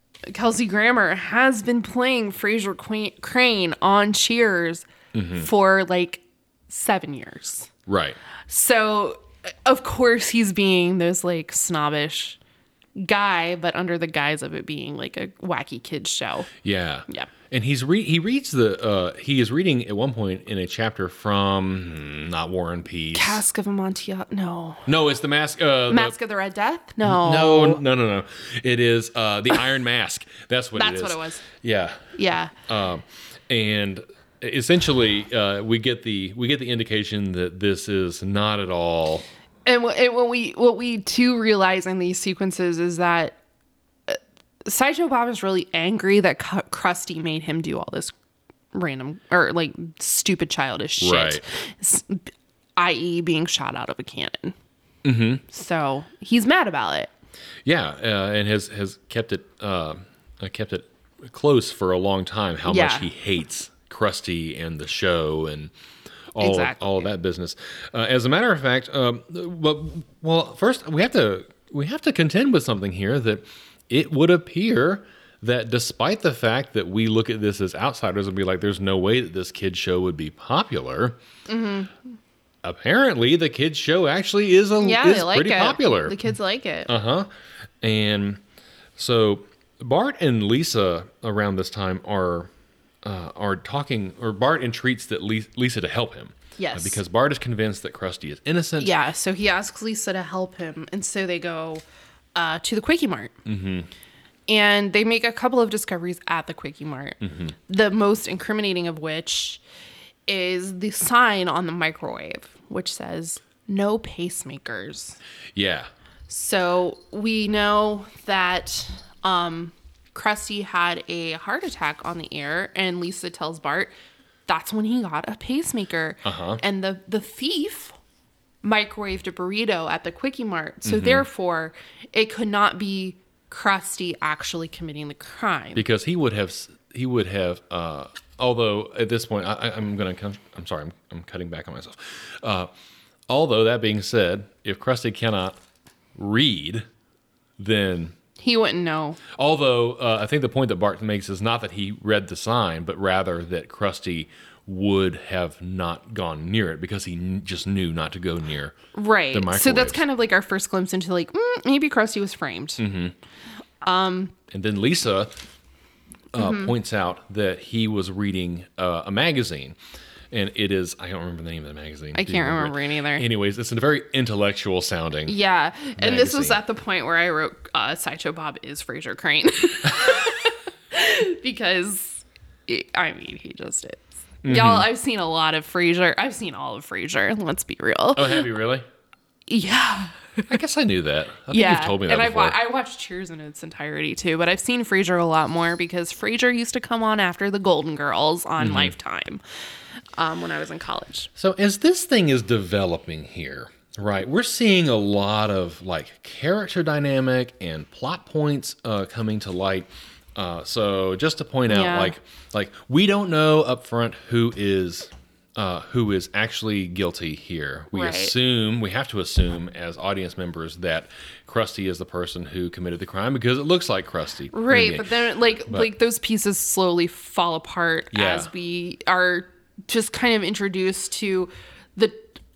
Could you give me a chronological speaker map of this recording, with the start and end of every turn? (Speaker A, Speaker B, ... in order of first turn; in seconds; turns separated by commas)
Speaker A: 0.3-7.7, Speaker B: 5.1-5.5, Speaker B: 7.9-8.2, Speaker A: 8.5-12.4, Speaker A: 13.0-16.5, Speaker B: 16.6-23.4, Speaker A: 23.1-24.9, Speaker B: 24.9-26.1, Speaker A: 25.9-27.8, Speaker B: 27.0-39.2, Speaker A: 30.8-31.4, Speaker A: 32.1-32.5, Speaker A: 39.7-43.4, Speaker A: 44.1-48.1, Speaker A: 48.7-52.2, Speaker B: 51.0-51.4, Speaker A: 52.8-54.5, Speaker B: 55.0-55.4, Speaker A: 55.5-57.1, Speaker B: 57.6-65.7, Speaker A: 62.7-63.1, Speaker B: 66.3-81.2, Speaker A: 66.4-67.0, Speaker A: 81.5-81.9, Speaker B: 82.6-86.2, Speaker A: 84.8-86.9, Speaker B: 86.9-87.3, Speaker B: 87.8-88.4, Speaker B: 89.0-92.5, Speaker B: 93.0-98.9, Speaker A: 96.6-97.0, Speaker A: 98.8-101.8, Speaker A: 102.3-103.3, Speaker B: 103.5-103.9, Speaker A: 104.5-109.6, Speaker B: 107.2-107.5, Speaker A: 110.3-115.2, Speaker B: 115.5-115.9, Speaker A: 116.3-123.9, Speaker A: 124.5-128.0, Speaker B: 126.2-126.6, Speaker A: 128.6-135.8, Speaker B: 130.8-131.3, Speaker B: 135.8-142.7, Speaker B: 143.3-145.6, Speaker B: 146.2-146.9, Speaker B: 147.6-148.2, Speaker A: 148.4-149.2, Speaker B: 149.3-158.8, Speaker A: 158.9-162.8, Speaker B: 159.3-160.0, Speaker B: 162.8-163.1, Speaker A: 163.8-164.3, Speaker B: 164.5-165.4, Speaker B: 166.3-169.8, Speaker A: 166.4-166.7, Speaker B: 170.3-175.4, Speaker A: 172.1-173.3, Speaker A: 175.3-188.4, Speaker B: 176.0-176.6, Speaker B: 184.4-184.9, Speaker B: 188.1-188.8, Speaker A: 189.5-190.5, Speaker B: 190.5-192.6, Speaker A: 191.5-199.4, Speaker B: 198.6-198.9, Speaker A: 200.2-201.3, Speaker B: 201.4-225.1, Speaker A: 211.7-212.1, Speaker A: 217.9-218.3, Speaker A: 224.5-232.4, Speaker B: 228.1-228.5